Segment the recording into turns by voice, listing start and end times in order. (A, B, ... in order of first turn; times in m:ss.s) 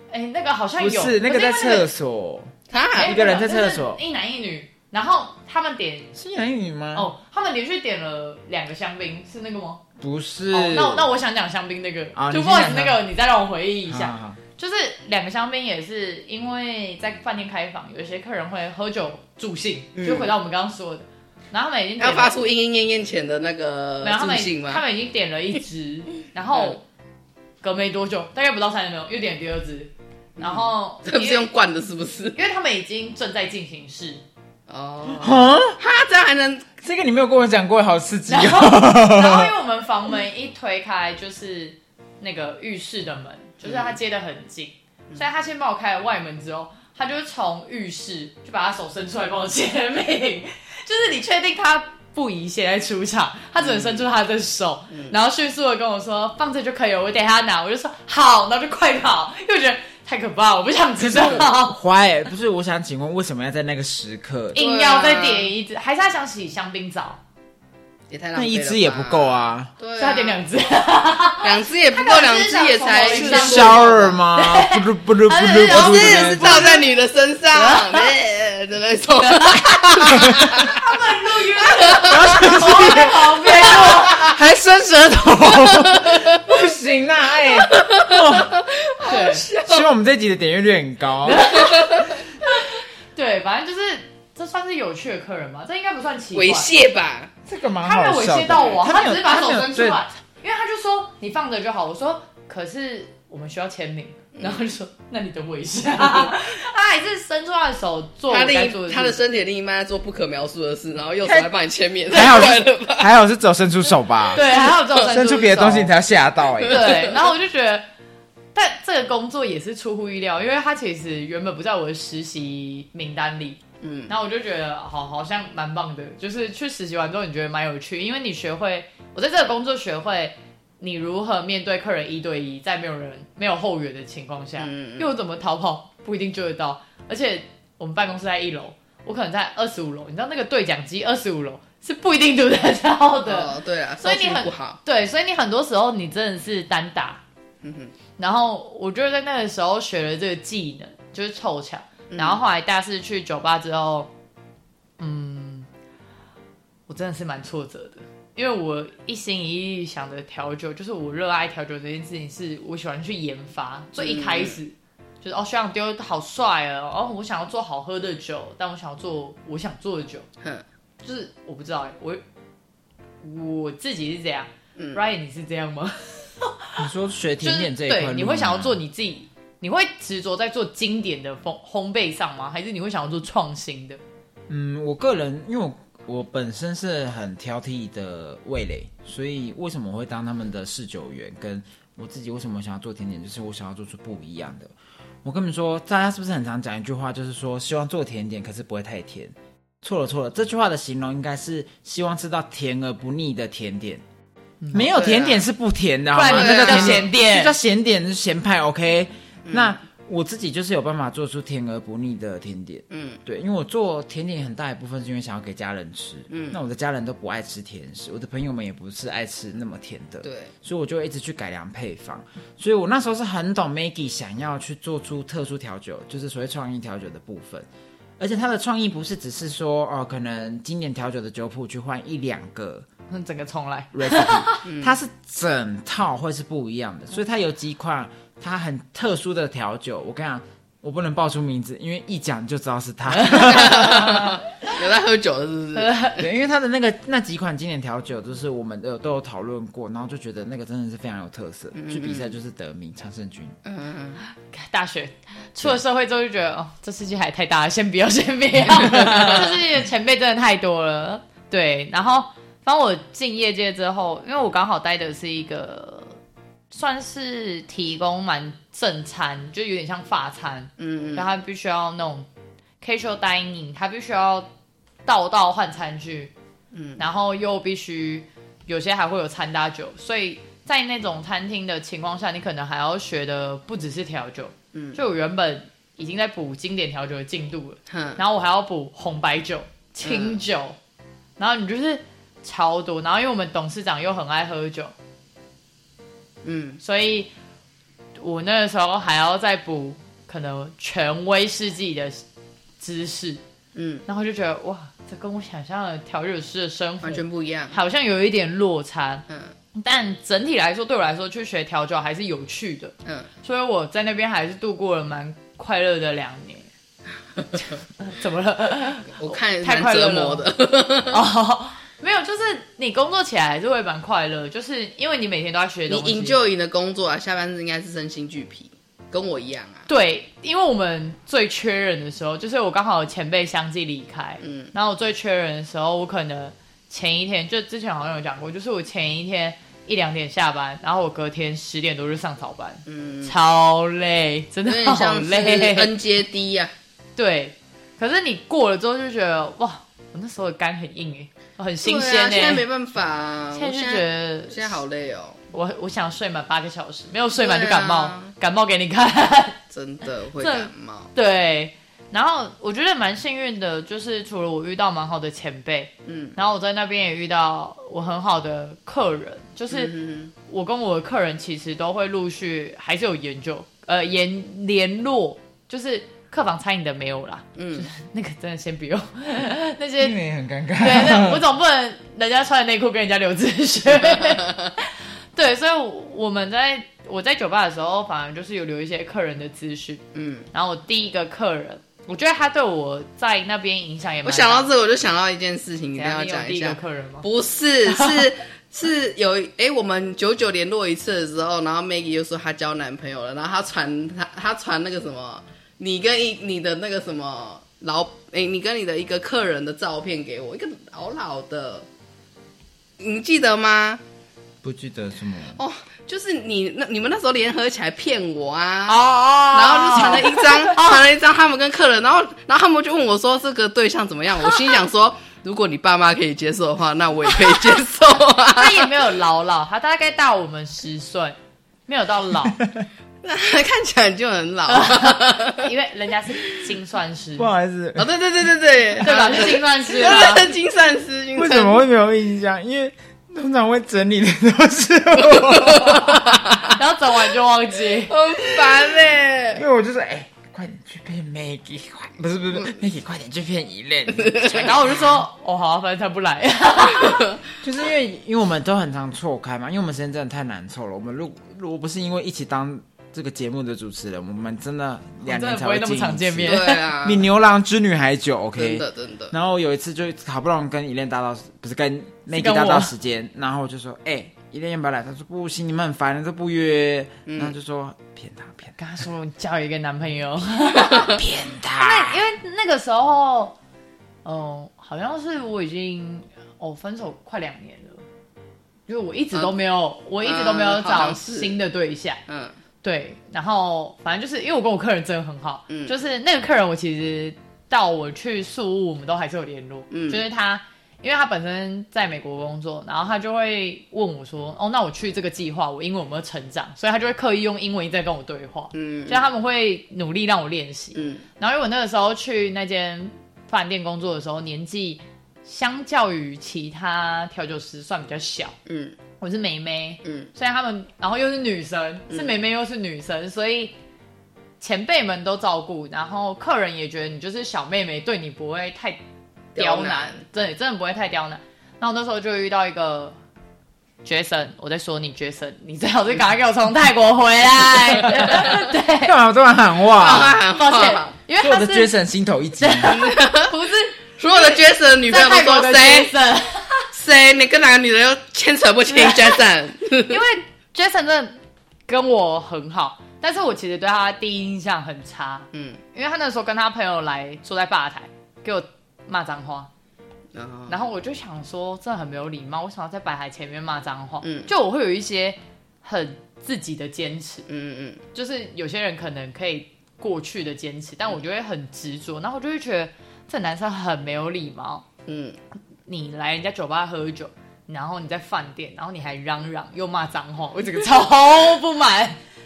0:00.1-0:01.9 A
0:00.8-0:04.0 B
0:02.7-0:03.2 C
0:02.9-0:06.2 A
0:06.1-0:07.1 B
0:06.9-0:09.8 A
0:10.0-0:11.1 B
0:10.5-0:22.3 A
0:12.2-0:13.0 B
0:13.9-0:14.4 B
0:20.0-0:20.3 C
0:22.0-0:24.8 C
0:24.0-0:26.8 A
0:26.5-0:26.8 C
0:27.6-0:31.5 A
0:30.4-0:32.4 C
0:32.3-0:34.2 A
0:34.7-0:36.7 C
0:35.1-0:35.8 B
0:36.8-0:39.5 B
0:38.3-1:01.8 A
0:43.6-0:44.0 C
0:53.6-0:54.0 C
0:54.9-0:55.2 C
1:01.0-1:04.6 B
1:04.5-1:07.2 A
1:04.6-1:05.5 C
1:08.1-1:10.5 C
1:08.3-1:09.7 B
1:10.0-1:17.0 A
1:11.4-1:14.2 C
1:13.1-1:16.7 B
1:15.6-1:20.8 C
1:17.5-1:18.1 A
1:19.2-1:24.3 A
1:20.2-1:20.5 B
1:21.6-1:24.3 C
1:22.1-1:23.3 B
1:24.0-1:28.6 B
1:25.8-1:26.4 C
1:27.6-1:29.9 C
1:29.0-1:29.5 A
1:29.6-1:31.7 B
1:31.2-1:36.7 A
1:31.5-1:32.1 C
1:36.3-1:37.3 C
1:37.4-1:40.0 B
1:37.8-1:49.2 A
1:44.3-1:44.6 C
1:46.0-1:46.3 C
1:48.3-1:53.1 C
1:51.2-1:51.5 B
1:52.1-1:57.0 B
1:54.3-1:55.9 A
1:54.4-1:55.0 C
1:56.6-1:57.2 C
1:56.6-1:57.9 A
1:58.5-2:27.2 A
2:03.8-2:04.1 C
2:14.6-2:15.1 C
2:23.2-2:24.8 C
2:27.6-2:27.9 C
2:28.2-2:34.1 A
2:32.1-2:32.4 C
2:35.0-2:35.7 A
2:36.9-2:50.3 A
2:44.0-2:44.6 C
2:51.0-2:52.2 A
2:53.2-2:56.8 A
2:54.8-2:55.0 C
2:56.8-2:58.8 B
2:57.4-3:04.0 A
3:04.5-3:14.7 B
3:15.2-3:24.0 B
3:24.6-3:24.9 A
3:24.7-3:47.7 B
3:24.9-3:25.5 C
3:26.1-3:27.5 A
3:26.2-3:27.1 C
3:29.4-3:29.8 C
3:32.9-3:33.2 C
3:36.3-3:36.6 C
3:40.2-3:40.5 C
3:48.2-3:52.9 B
3:53.1-3:54.7 A
3:53.9-4:04.3 B
3:54.6-3:55.0 C
4:03.1-4:04.8 A
4:03.3-4:06.0 C
4:05.7-4:06.2 A
4:06.2-4:13.6 B
4:11.7-4:12.3 C
4:13.6-4:14.2 C
4:14.5-4:26.2 A
4:26.7-4:32.3 A
4:30.8-4:31.3 C
4:32.8-4:34.5 A
4:35.0-4:36.3 A
4:36.7-4:37.0 C
4:37.0-4:50.8 A
4:44.7-4:45.0 C
4:47.9-4:48.2 C
4:50.0-4:50.4 C
4:51.4-4:54.9 A
4:56.4-4:56.8 C
4:56.8-4:57.3 A
4:58.2-5:02.2 A
5:02.8-5:03.4 A
5:03.7-5:04.0 C
5:04.0-5:09.2 A
5:07.0-5:07.8 C
5:09.7-5:16.7 A
5:17.6-5:20.5 A
5:19.1-5:21.2 C
5:21.1-5:26.4 A
5:25.9-5:29.9 C
5:29.9-5:45.9 A
5:34.4-5:34.7 C
5:42.8-5:43.3 C
5:44.6-5:46.7 C
5:47.2-5:52.6 A
5:51.8-5:55.4 C
5:53.5-5:54.8 A
5:55.5-5:59.6 A
5:57.4-5:58.3 C
5:59.7-6:01.1 C
6:00.4-6:20.2 A
6:06.0-6:06.4 C
6:09.7-6:10.3 C
6:17.6-6:17.9 C
6:20.0-6:21.4 B
6:20.8-6:34.7 A
6:24.1-6:24.7 C
6:30.1-6:30.5 C
6:34.2-6:51.9 C
6:36.0-6:37.3 A
6:37.8-6:38.3 A
6:53.0-6:54.0 C
6:54.6-6:55.6 B
6:55.6-7:08.9 C
6:58.9-7:01.0 A
7:08.5-7:12.6 A
7:13.2-7:15.7 C
7:14.7-7:17.5 A
7:17.4-7:18.1 B
7:18.0-7:21.8 C
7:19.0-7:20.5 A
7:21.4-7:26.4 B
7:25.3-7:26.7 C
7:26.6-7:28.2 A
7:28.1-7:29.6 C
7:29.5-7:35.0 B
7:34.2-7:34.7 C
7:34.5-7:37.2 A
7:37.0-7:37.2 C
7:37.6-7:58.8 B
7:45.2-7:46.8 A
7:46.4-7:47.2 C
7:48.6-7:49.3 C
7:52.3-7:52.9 A
7:57.2-7:57.5 C
7:58.8-8:01.2 A
8:01.0-8:02.2 B
8:01.7-8:03.6 A
8:04.2-8:08.0 A
8:08.9-8:12.2 A
8:10.2-8:11.6 C
8:12.3-8:12.6 C
8:12.8-8:38.6 A
8:15.7-8:15.9 C
8:19.9-8:20.2 C
8:28.7-8:29.2 C
8:30.9-8:31.2 C
8:38.7-8:39.0 C
8:39.2-8:43.7 A
8:40.0-8:40.3 C
8:42.1-8:42.4 C
8:44.6-8:49.0 A
8:49.5-8:50.2 C
8:49.6-8:53.2 A
8:54.0-8:59.1 A
8:58.0-8:58.4 C
8:58.1-9:00.4 B
9:00.0-9:01.1 C
9:00.0-9:01.9 A
9:01.4-9:03.0 B
9:02.6-9:06.9 A
9:02.9-9:03.5 C
9:04.2-9:06.1 C
9:06.9-9:10.2 C
9:08.9-9:09.4 A
9:10.0-9:11.4 A
9:11.9-9:19.7 A
9:15.5-9:15.8 C
9:20.3-9:20.8 C
9:20.7-9:27.5 A
9:24.2-9:24.5 C
9:27.5-9:28.0 C
9:28.1-9:34.8 A
9:35.1-9:35.4 C
9:35.9-9:42.2 A